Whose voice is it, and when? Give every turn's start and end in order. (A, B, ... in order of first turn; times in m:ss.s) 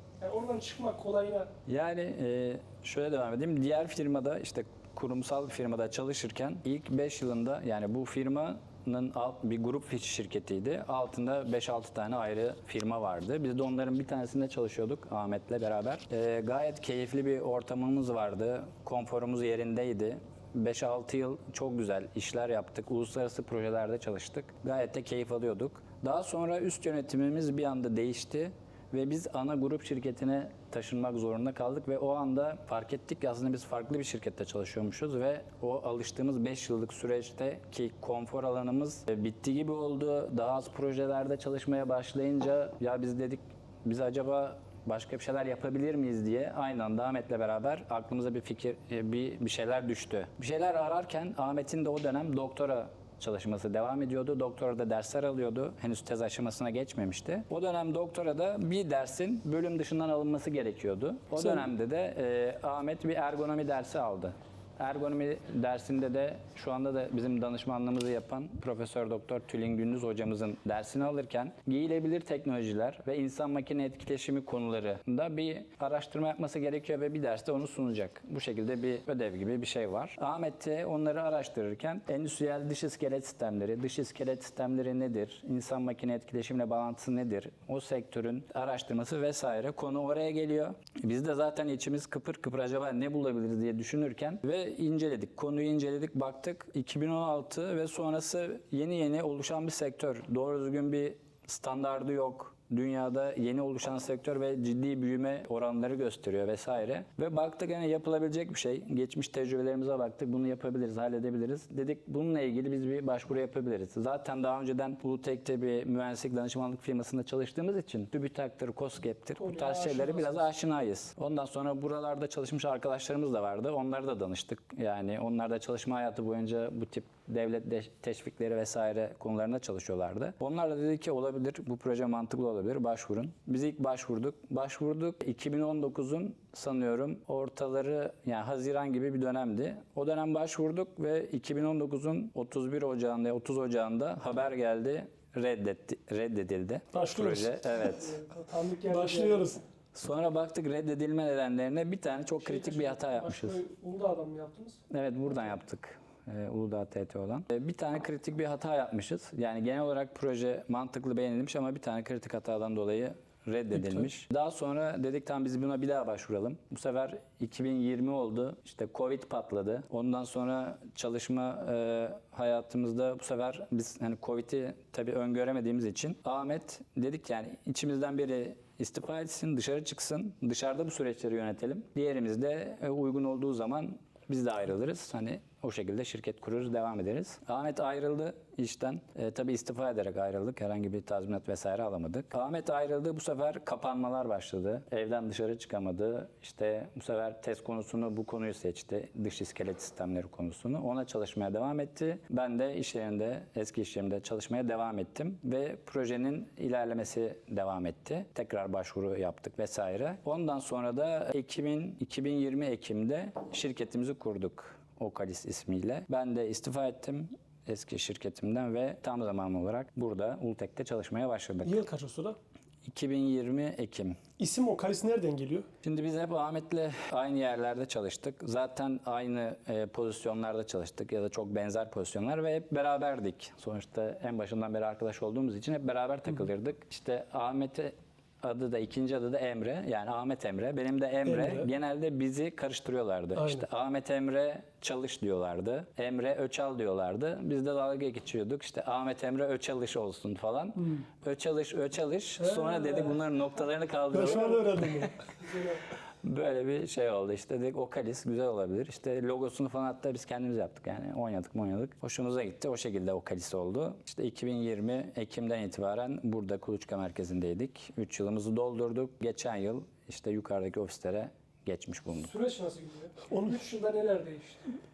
0:00.2-0:01.5 A
0:01.7-2:28.2 B
1:59.4-2:00.4 A
2:26.9-2:27.9 C
2:27.8-2:29.4 A
2:28.8-2:29.6 C
2:29.9-2:33.6 B
2:32.4-2:34.8 A
2:34.9-3:41.8 B
2:43.8-2:44.0 C
3:41.6-3:42.4 C
3:42.8-3:44.2 B
3:44.4-3:45.7 C
3:45.8-4:15.1 B
4:01.2-4:01.7 C
4:03.3-4:03.6 C
4:14.1-4:15.2 C
4:15.4-4:15.8 A
4:16.2-4:32.3 B
4:32.1-4:34.6 A
4:33.3-4:33.6 C